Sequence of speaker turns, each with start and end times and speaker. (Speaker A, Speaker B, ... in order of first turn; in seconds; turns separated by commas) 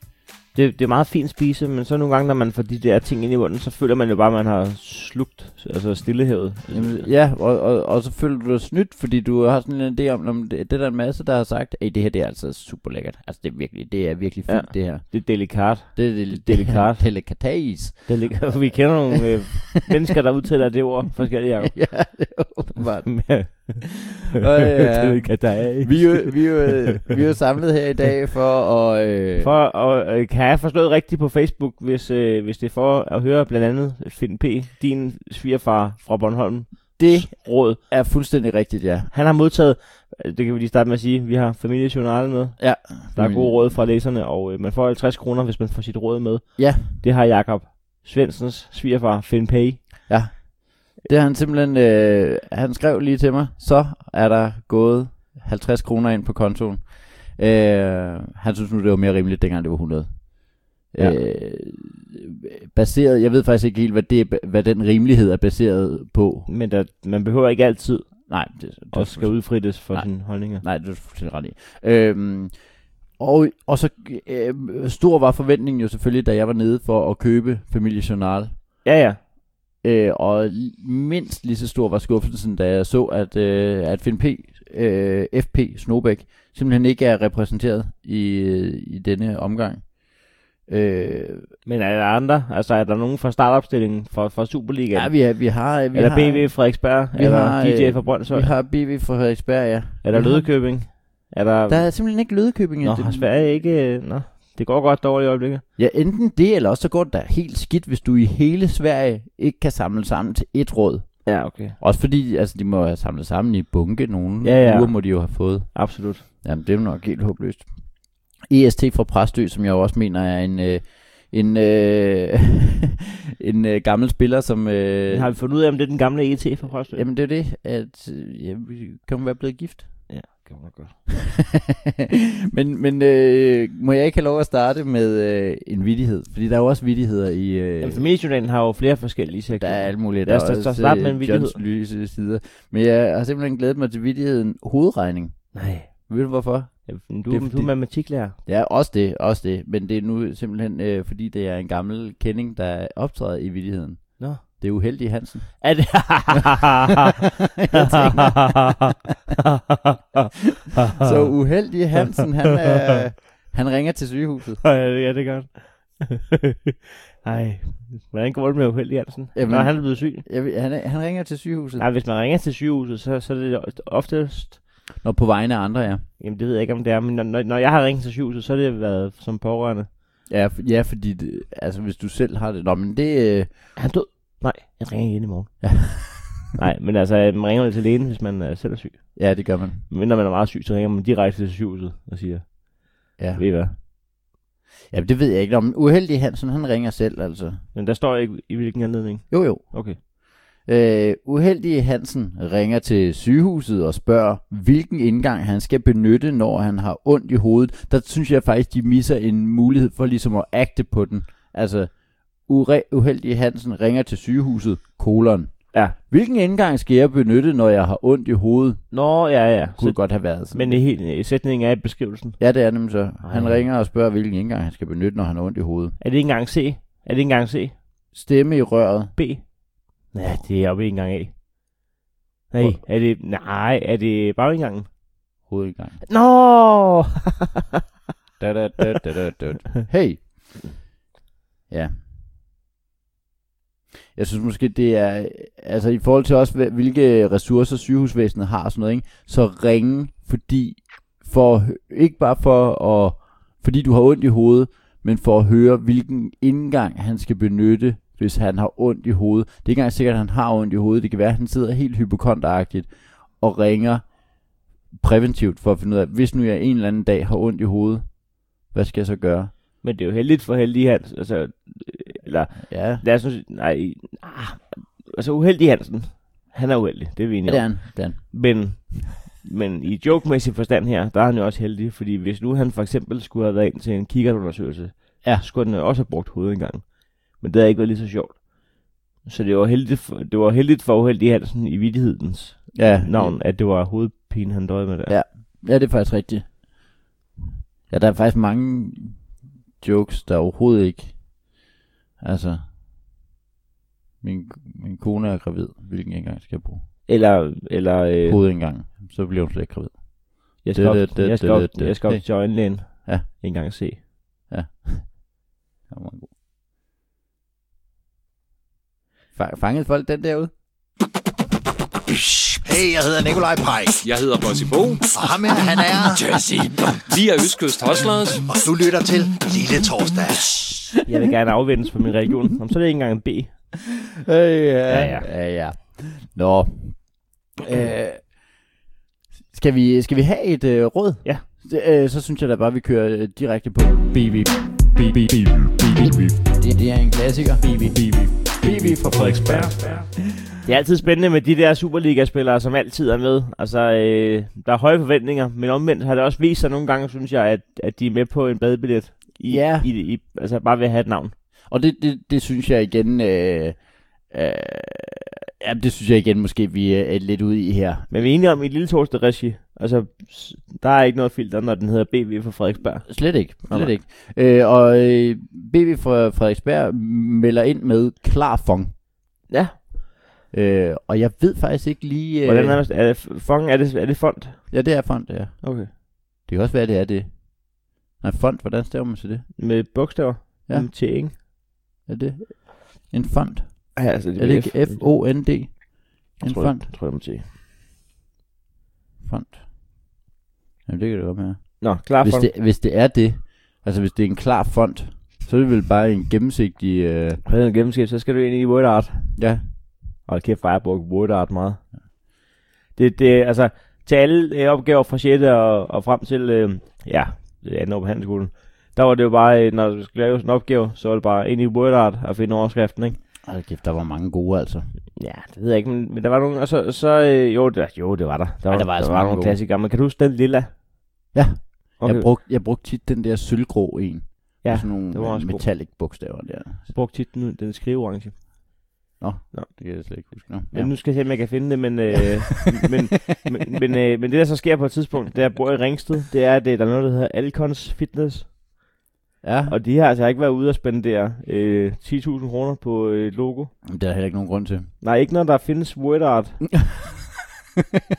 Speaker A: 0.5-7.1, Speaker B: 6.7-19.6, Speaker A: 14.5-17.5, Speaker A: 18.1-22.3, Speaker B: 21.6-23.8, Speaker A: 23.1-27.1, Speaker B: 24.4-29.5, Speaker A: 29.4-37.8, Speaker B: 37.0-39.1, Speaker A: 39.1-50.1, Speaker B: 42.6-43.8, Speaker B: 46.6-46.9, Speaker B: 50.1-66.5, Speaker A: 66.5-68.3, Speaker B: 68.3-78.5, Speaker A: 68.9-70.6, Speaker A: 78.8-79.2, Speaker B: 79.8-90.0, Speaker B: 90.6-91.5, Speaker A: 91.6-98.5, Speaker B: 94.9-100.9, Speaker A: 100.0-102.0, Speaker B: 101.7-103.3, Speaker A: 102.8-105.6, Speaker B: 105.8-125.3, Speaker A: 111.2-111.8, Speaker A: 114.4-116.2, Speaker A: 125.1-127.0, Speaker B: 126.9-130.1, Speaker A: 130.1-131.0, Speaker B: 132.5-138.0, Speaker A: 137.8-141.6, Speaker B: 139.5-155.8, Speaker A: 145.5-145.9, Speaker A: 146.8-148.4, Speaker A: 155.6-157.0, Speaker B: 157.6-158.7, Speaker A: 157.7-158.5, Speaker A: 159.3-161.3, Speaker B: 160.9-164.6, Speaker A: 164.6-170.2, Speaker B: 169.3-171.8, Speaker A: 171.8-174.6, Speaker B: 175.0-176.0, Speaker A: 176.2-179.9, Speaker B: 180.3-183.7, Speaker A: 183.8-193.8, Speaker B: 185.6-186.4, Speaker B: 189.1-189.8, Speaker B: 193.2-193.4, Speaker B: 194.9-197.6, Speaker A: 197.7-200.0, Speaker B: 199.3-200.1, Speaker B: 200.6-218.9, Speaker A: 218.9-222.4, Speaker B: 219.8-220.8, Speaker B: 222.4-225.9, Speaker A: 223.2-223.6, Speaker A: 226.0-227.8, Speaker B: 228.1-229.1, Speaker A: 229.2-229.4, Speaker A: 230.0-231.3, Speaker A: 232.5-234.9, Speaker B: 235.5-236.0, Speaker A: 236.0-237.5, Speaker B: 238.4-240.9, Speaker B: 241.7-241.9, Speaker B: 244.1-264.1, Speaker B: 264.9-269.5, Speaker A: 269.8-288.5, Speaker B: 272.7-273.0, Speaker B: 277.4-278.8, Speaker A: 289.2-295.1, Speaker B: 292.7-293.4, Speaker B: 295.1-296.9, Speaker B: 297.9-301.4, Speaker B: 302.2-302.6, Speaker B: 304.2-306.8, Speaker A: 307.1-308.4, Speaker B: 308.2-313.2, Speaker A: 310.6-314.0, Speaker B: 314.5-316.3, Speaker B: 319.3-320.5, Speaker C: 322.3-324.0, Speaker D: 324.0-325.1, Speaker C: 325.1-326.8, Speaker D: 326.9-328.4, Speaker C: 328.5-331.0, Speaker A: 331.1-333.5, Speaker B: 334.1-338.3, Speaker A: 334.9-335.3, Speaker B: 339.5-350.0, Speaker A: 350.6-361.3, Speaker B: 359.5-359.9, Speaker B: 361.7-363.8, Speaker B: 364.3-368.1, Speaker A: 368.1-373.9, Speaker B: 373.1-378.9, Speaker A: 379.5-379.8, Speaker B: 380.5-382.8, Speaker A: 382.4-384.7, Speaker B: 384.7-389.5, Speaker A: 385.6-385.9, Speaker A: 389.6-391.3, Speaker B: 390.7-390.9, Speaker B: 392.1-396.9, Speaker A: 393.9-395.1, Speaker A: 396.4-397.4, Speaker B: 399.2-399.6, Speaker B: 400.9-407.4, Speaker A: 401.8-402.5, Speaker A: 407.4-409.4, Speaker B: 409.4-409.6, Speaker A: 410.2-411.9, Speaker A: 412.9-423.2, Speaker B: 423.4-424.9, Speaker A: 425.1-430.7, Speaker B: 428.7-429.6, Speaker B: 431.3-436.9, Speaker A: 432.0-432.3, Speaker A: 434.6-435.7, Speaker A: 436.9-438.4, Speaker B: 439.2-441.6, Speaker A: 439.5-448.5, Speaker B: 449.4-449.8, Speaker A: 449.7-453.7, Speaker B: 453.9-454.9, Speaker A: 455.0-456.7, Speaker B: 456.8-457.2